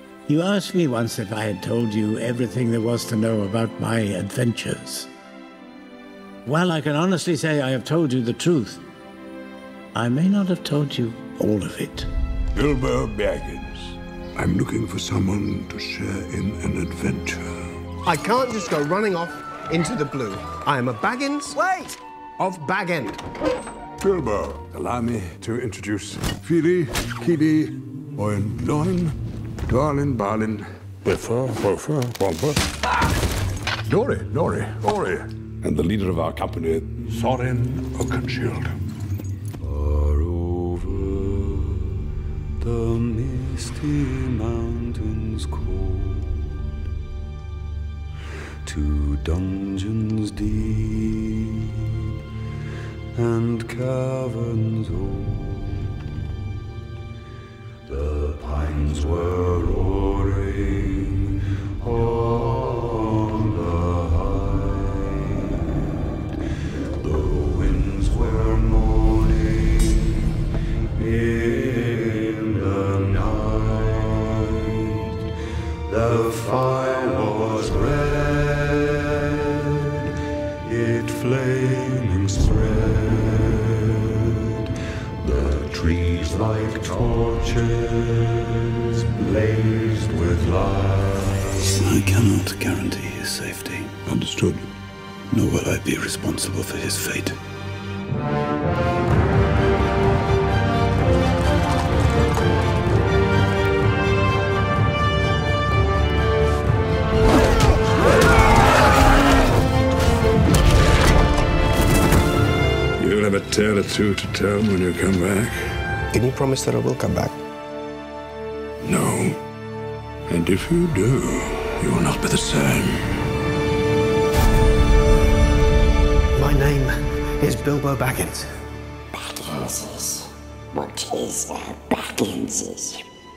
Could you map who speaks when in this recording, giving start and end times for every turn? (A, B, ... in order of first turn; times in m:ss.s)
0:00.3-0:05.1 A
0:06.4-0:08.8 A
0:09.9-0:12.1 A
0:12.6-0:13.5 B
0:14.4-0:17.4 B
0:18.0-0:23.2 C
0:24.0-0:29.1 B
0:29.7-0:32.5 B
0:33.9-0:35.1 B
0:35.6-0:38.6 B
0:39.6-0:42.0 D
0:42.6-0:46.7 D
0:48.6-0:52.1 D
0:53.1-0:56.1 D
0:57.9-1:06.2 D
1:07.0-1:15.3 D
1:15.8-1:34.0 D
1:34.1-1:34.6 B
1:35.3-1:37.4 D
1:53.0-1:55.5 B
1:56.1-1:57.4 C
1:58.9-1:59.2 B
2:00.3-2:03.0 B
2:06.4-2:08.5 C
2:09.1-2:13.0 E